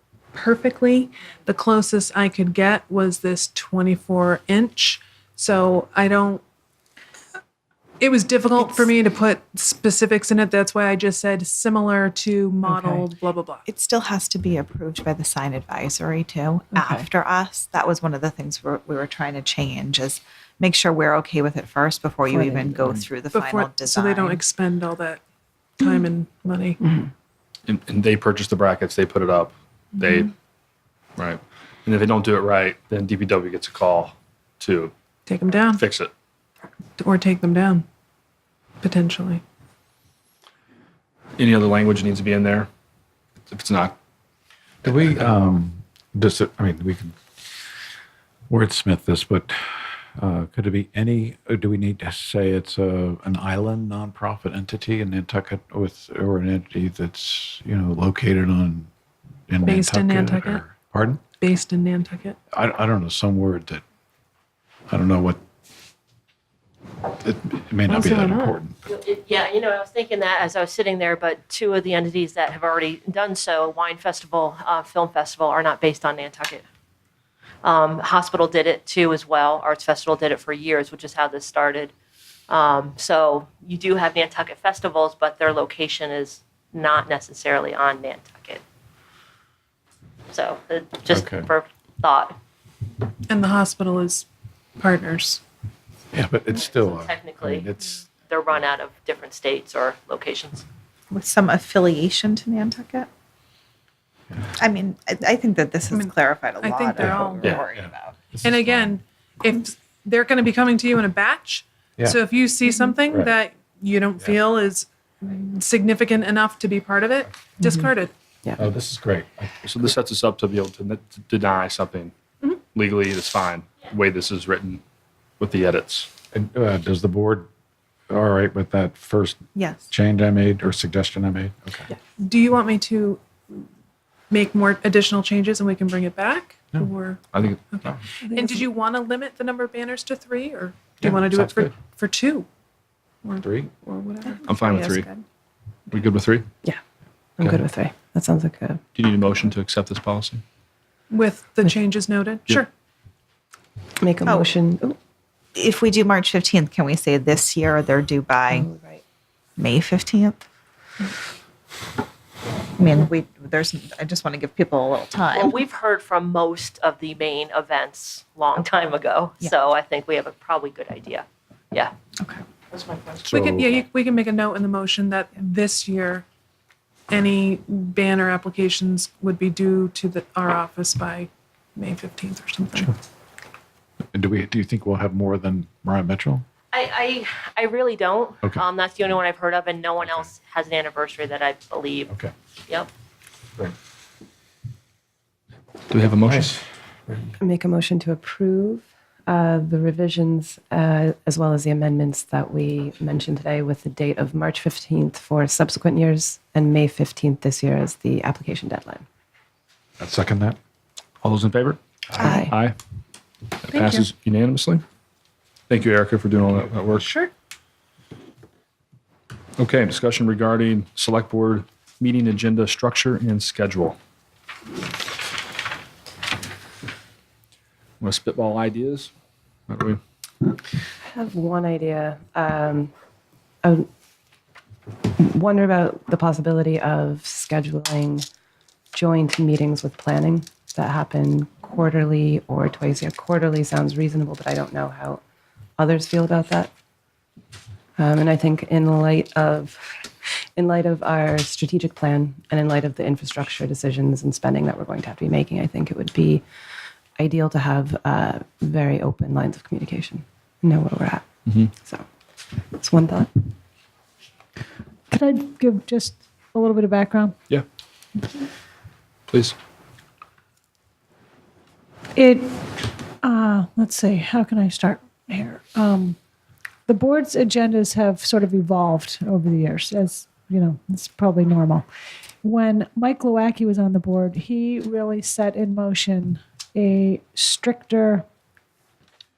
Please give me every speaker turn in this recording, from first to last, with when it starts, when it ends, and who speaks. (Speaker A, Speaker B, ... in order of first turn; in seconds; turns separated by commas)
Speaker A: 0.3-6.4, Speaker A: 8.0-13.7, Speaker B: 8.6-8.9, Speaker C: 12.7-13.0, Speaker B: 13.7-24.4, Speaker A: 16.7-17.1, Speaker C: 22.3-23.0, Speaker A: 23.3-25.2, Speaker A: 25.8-26.8, Speaker D: 27.7-30.3, Speaker A: 30.0-30.3, Speaker D: 31.2-34.9, Speaker A: 35.3-35.9, Speaker D: 35.7-36.1, Speaker A: 37.0-37.9, Speaker A: 38.8-39.4, Speaker D: 41.4-42.7, Speaker D: 43.5-44.0, Speaker E: 44.8-47.2, Speaker D: 45.0-45.3, Speaker E: 48.5-58.9, Speaker E: 59.5-61.2, Speaker A: 59.6-60.7, Speaker A: 61.4-62.4, Speaker E: 62.5-63.8, Speaker E: 64.9-65.4, Speaker E: 67.2-68.8, Speaker A: 67.9-68.6, Speaker F: 68.9-76.7, Speaker F: 77.6-81.9, Speaker F: 82.5-88.6, Speaker F: 90.3-92.4, Speaker E: 91.1-91.5, Speaker A: 93.3-94.3, Speaker A: 94.8-95.4, Speaker E: 96.1-98.0, Speaker F: 96.5-97.7, Speaker F: 98.2-100.7, Speaker B: 101.1-103.1, Speaker B: 104.6-108.3, Speaker A: 105.9-107.5, Speaker E: 107.0-109.0, Speaker A: 108.4-118.1, Speaker E: 113.1-113.3, Speaker C: 117.6-117.9, Speaker E: 118.6-119.7, Speaker D: 119.7-122.2, Speaker D: 122.7-124.8, Speaker D: 125.4-126.1, Speaker E: 126.3-127.5, Speaker E: 128.1-131.9, Speaker B: 129.6-129.9, Speaker A: 132.2-133.7, Speaker A: 134.3-142.5, Speaker D: 137.3-137.7, Speaker G: 138.3-138.7, Speaker E: 141.0-141.7, Speaker A: 143.2-144.4, Speaker B: 143.9-145.2, Speaker D: 144.4-145.1, Speaker D: 145.9-146.5, Speaker C: 147.4-148.8, Speaker D: 148.9-150.4, Speaker A: 151.1-152.7, Speaker C: 154.0-155.0, Speaker B: 155.6-158.7, Speaker C: 158.5-159.0, Speaker B: 159.6-160.4, Speaker B: 162.8-165.6, Speaker F: 165.3-171.9, Speaker B: 172.2-173.0, Speaker A: 173.1-176.2, Speaker E: 173.2-173.7, Speaker A: 177.1-182.9, Speaker E: 184.1-186.5, Speaker F: 186.7-192.1, Speaker E: 190.0-190.3, Speaker D: 195.9-196.6, Speaker E: 196.3-197.3, Speaker C: 197.4-209.1, Speaker E: 210.0-210.6, Speaker D: 211.2-212.8, Speaker E: 212.1-212.4, Speaker C: 212.2-212.6, Speaker D: 213.7-214.8, Speaker A: 213.7-214.1, Speaker D: 215.7-217.1, Speaker A: 217.0-217.3, Speaker D: 219.6-224.0, Speaker D: 228.0-229.1, Speaker D: 229.7-230.0, Speaker C: 231.1-232.9, Speaker C: 235.1-238.3, Speaker C: 238.9-245.2, Speaker C: 245.8-246.7, Speaker C: 248.0-250.0, Speaker C: 250.6-256.4, Speaker C: 257.2-261.3, Speaker C: 261.8-262.1, Speaker C: 262.7-263.5, Speaker G: 265.1-267.4, Speaker D: 269.3-269.6, Speaker G: 272.1-272.6, Speaker G: 273.2-276.2, Speaker G: 276.9-281.9, Speaker G: 282.4-288.2